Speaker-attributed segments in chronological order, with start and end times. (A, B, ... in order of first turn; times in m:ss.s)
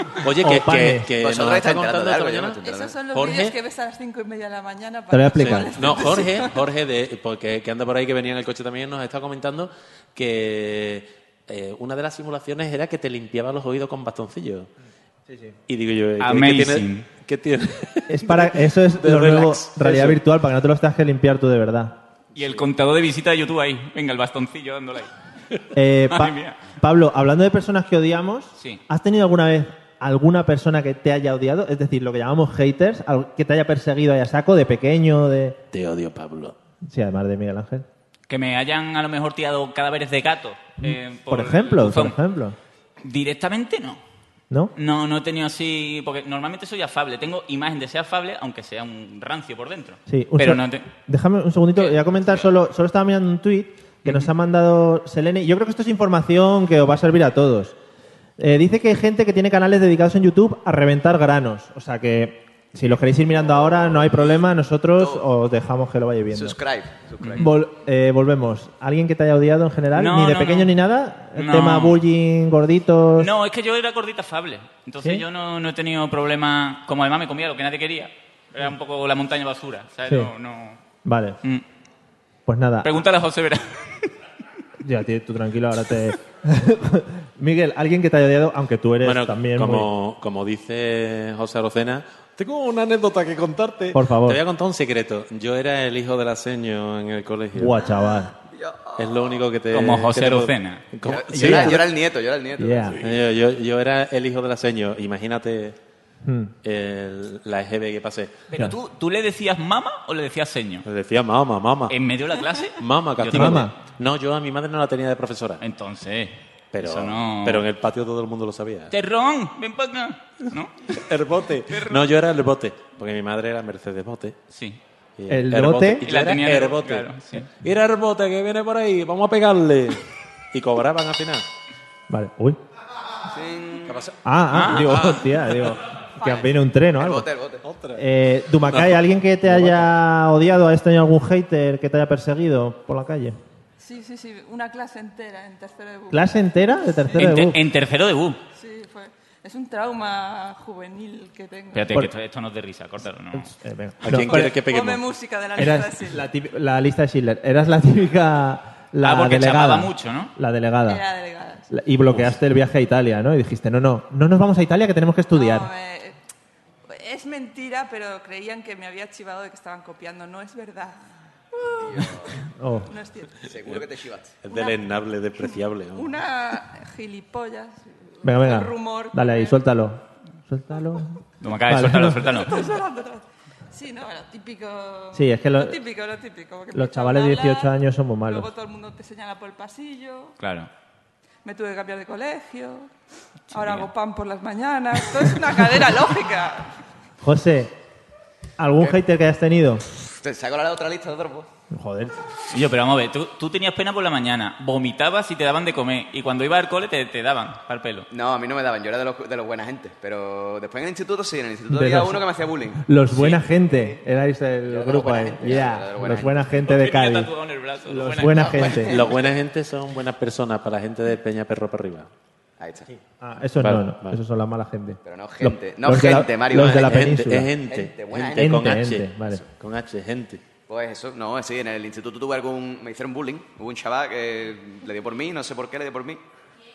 0:00.2-0:02.6 A
0:00.4-0:01.1 B
0:01.2-0:02.9 C
0:02.6-0:06.6 D
0:03.1-0:03.6 A
0:05.1-0:06.0 B
0:05.4-0:14.7 A
0:15.3-0:15.6 B
0:15.7-0:20.2 A
0:16.2-0:17.1 E
0:18.1-0:22.0 B
0:22.3-0:25.1 E
0:22.4-0:22.6 A
0:25.7-0:35.6 B
0:26.1-0:26.6 E
0:35.7-0:36.5 A
0:36.8-0:37.8 B
0:38.3-0:42.2 E
0:40.8-0:42.6 B
0:43.0-0:44.0 E
0:44.8-0:50.9 E
0:50.1-0:57.7 B
0:51.8-0:52.3 E
0:58.4-1:06.6 B
1:05.0-1:05.2 C
1:06.3-1:07.5 C
1:07.2-1:07.5 E
1:07.4-1:13.3 B
1:09.9-1:10.7 E
1:11.4-1:12.0 E
1:13.2-1:20.8 E
1:21.0-1:21.4 B
1:22.4-1:22.9 B
1:22.8-1:24.1 E
1:24.8-1:29.9 B
1:29.0-1:37.8 A
1:33.9-1:34.4 B
1:37.6-1:38.3 B
1:37.9-1:39.4 C
1:39.0-1:41.8 A
1:39.7-1:40.8 E
1:41.0-1:43.0 C
1:41.3-1:41.8 B
1:42.6-1:43.0 B
1:43.0-1:45.8 A
1:46.2-1:46.5 B
1:46.6-1:48.4 A
1:48.5-1:50.8 E
1:50.8-1:52.0 A
1:51.9-1:53.6 E
1:52.8-1:55.6 A
1:53.3-1:53.7 B
1:55.6-1:57.6 E
1:56.7-1:58.9 A
1:58.9-2:00.9 E
2:00.9-2:04.4 A
2:01.7-2:02.0 E
2:04.5-2:04.8 E
2:05.2-2:11.4 A
2:05.3-2:06.0 B
2:06.0-2:07.5 E
2:12.1-2:12.6 B
2:13.3-2:14.0 C
2:13.9-2:14.2 A
2:14.2-2:17.3 B
2:14.5-2:15.1 E
2:14.7-2:15.2 A
2:17.0-2:17.6 C
2:17.6-2:18.0 A
2:18.0-2:23.4 B
2:18.7-2:19.9 A
2:23.8-2:26.3 D
2:26.1-2:27.6 B
2:27.2-2:28.4 E
2:28.6-2:32.0 D
2:31.7-2:33.5 E
2:33.3-2:34.6 B
2:34.0-2:35.1 A
2:34.6-2:36.2 D
2:35.6-2:41.0 B
2:39.0-2:40.3 E
2:40.8-2:41.7 D
2:41.7-2:45.7 B
2:45.3-2:46.2 D
2:46.9-2:51.0 D
2:51.5-2:53.4 D
2:51.8-2:52.4 C
2:52.6-2:52.9 B
2:53.4-2:54.4 C
2:54.4-2:56.2 A
2:54.5-2:54.8 D
2:55.9-2:59.6 D
2:58.2-3:02.4 B
3:01.4-3:02.6 E
3:02.4-3:10.4 D
3:05.1-3:05.8 B
3:06.7-3:08.5 B
3:10.4-3:10.7 E
3:11.4-3:12.9 D
3:13.5-3:16.7 D
3:13.5-3:13.9 E
3:17.2-3:17.7 B
3:18.6-3:19.8 B
3:20.2-3:21.5 C
3:21.7-3:22.2 B
3:22.5-3:28.1 E
3:28.1-3:32.8 C
3:31.7-3:32.2 B
3:32.8-3:37.3 B
3:33.1-3:33.4 E
3:33.6-3:33.9 C
3:34.7-3:36.4 C
3:36.6-3:38.8 E
3:37.9-3:39.0 B
3:38.3-3:39.3 C
3:38.9-3:42.1 A
3:42.6-3:42.9 C
3:42.9-3:47.5 B
3:43.6-3:44.2 A
3:45.0-3:48.8 C
3:46.5-3:50.4 A
3:48.4-3:49.4 B
3:50.7-3:56.2 C